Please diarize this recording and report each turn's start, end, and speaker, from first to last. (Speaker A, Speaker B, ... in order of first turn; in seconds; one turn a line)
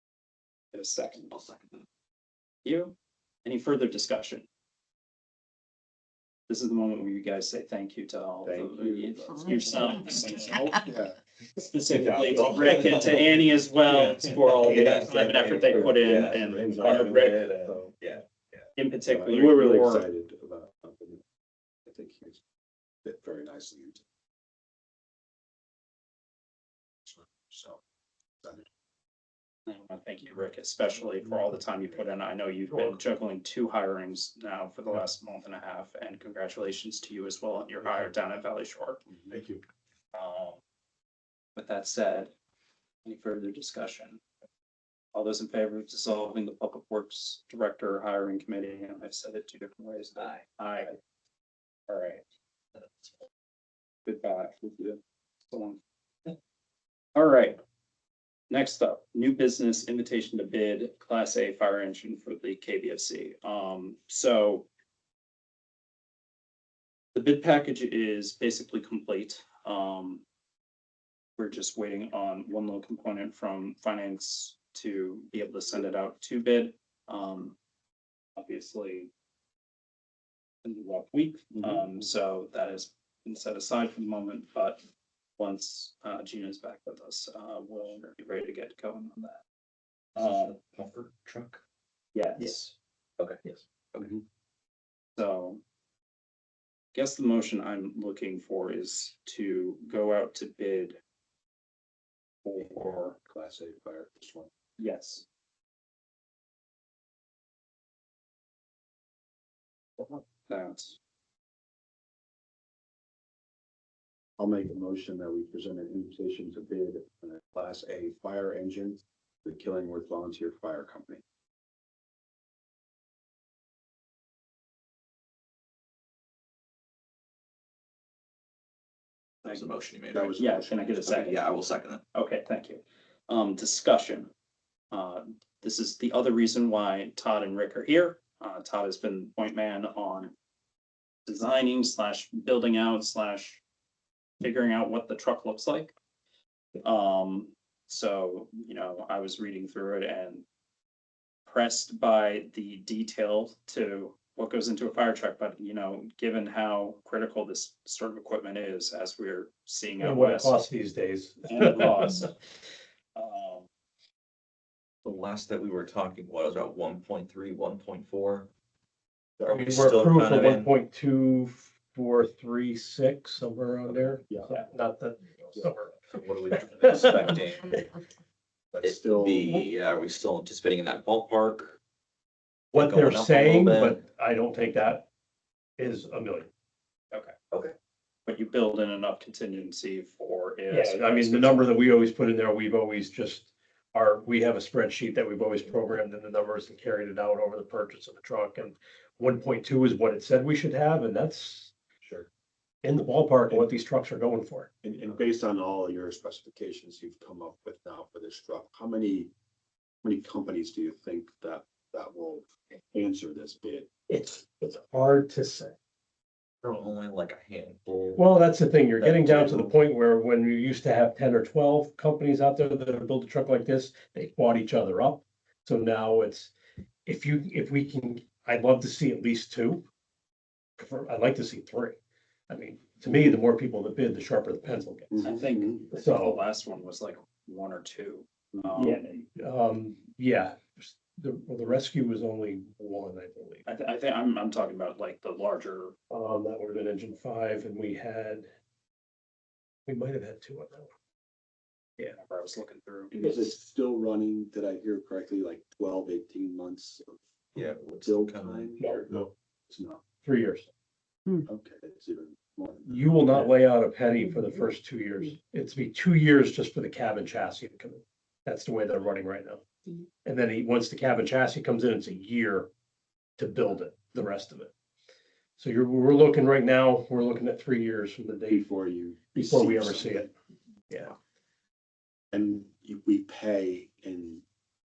Speaker A: 0.7-1.3
Speaker B: 1.3-1.8
Speaker A: 2.6-4.5
Speaker A: 6.5-10.7
Speaker C: 8.4-11.2
Speaker A: 11.6-17.5
Speaker C: 11.9-13.3
Speaker B: 11.9-18.2
Speaker C: 14.4-18.0
Speaker A: 18.8-20.1
Speaker C: 19.0-21.2
Speaker C: 21.9-22.4
Speaker C: 23.0-24.0
Speaker C: 27.1-27.8
Speaker C: 28.4-28.7
Speaker A: 29.7-39.0
Speaker C: 31.0-32.1
Speaker C: 32.7-33.0
Speaker C: 37.8-38.1
Speaker C: 39.1-39.6
Speaker A: 40.1-40.6
Speaker A: 41.6-42.3
Speaker A: 43.0-44.2
Speaker A: 45.1-51.0
Speaker B: 50.2-50.4
Speaker A: 51.9-52.2
Speaker B: 52.8-53.2
Speaker A: 54.1-55.8
Speaker A: 57.1-57.6
Speaker A: 58.5-64.7
Speaker A: 67.1-70.2
Speaker A: 71.4-77.5
Speaker A: 78.4-79.1
Speaker A: 80.6-84.8
Speaker A: 85.4-89.4
Speaker A: 90.2-90.6
Speaker B: 90.2-91.6
Speaker A: 92.1-92.7
Speaker B: 93.2-94.2
Speaker A: 95.2-95.6
Speaker A: 96.9-101.0
Speaker A: 102.5-103.2
Speaker C: 102.6-104.5
Speaker A: 104.8-105.2
Speaker A: 110.0-111.0
Speaker C: 114.4-121.2
Speaker B: 129.4-130.3
Speaker C: 130.1-131.2
Speaker A: 130.4-131.4
Speaker B: 131.0-132.0
Speaker A: 132.1-134.3
Speaker A: 134.9-140.3
Speaker A: 141.3-143.6
Speaker A: 144.4-145.9
Speaker A: 146.8-150.4
Speaker A: 151.5-160.6
Speaker D: 160.0-162.3
Speaker A: 161.5-162.3
Speaker A: 163.2-163.7
Speaker B: 165.0-168.5
Speaker C: 169.4-169.8
Speaker B: 169.5-170.7
Speaker D: 169.6-177.4
Speaker C: 174.3-174.6
Speaker B: 176.1-177.9
Speaker C: 178.7-179.7
Speaker B: 178.8-181.8
Speaker B: 182.7-184.0
Speaker D: 182.7-185.1
Speaker D: 185.8-186.5
Speaker A: 188.3-191.7
Speaker D: 190.7-201.7
Speaker C: 202.0-202.3
Speaker D: 202.8-204.7
Speaker C: 204.8-209.3
Speaker C: 210.0-213.9
Speaker D: 214.1-215.8
Speaker B: 216.6-218.3
Speaker D: 218.2-226.5
Speaker B: 219.0-219.7
Speaker D: 227.1-229.8
Speaker D: 230.8-232.0
Speaker D: 232.5-235.3
Speaker C: 235.1-235.8
Speaker A: 235.2-239.3
Speaker D: 235.9-236.4
Speaker D: 238.8-243.7
Speaker A: 243.7-246.0
Speaker D: 246.1-248.5
Speaker D: 249.9-250.9
Speaker A: 252.1-253.1
Speaker C: 253.1-260.0
Speaker D: 253.2-253.5
Speaker B: 257.6-258.7
Speaker D: 258.8-259.1
Speaker D: 260.2-260.7
Speaker C: 261.5-263.5
Speaker D: 262.9-269.6
Speaker D: 270.2-272.7
Speaker D: 273.4-274.7
Speaker D: 275.6-278.7
Speaker C: 278.5-280.3
Speaker D: 279.4-280.3
Speaker C: 282.3-284.4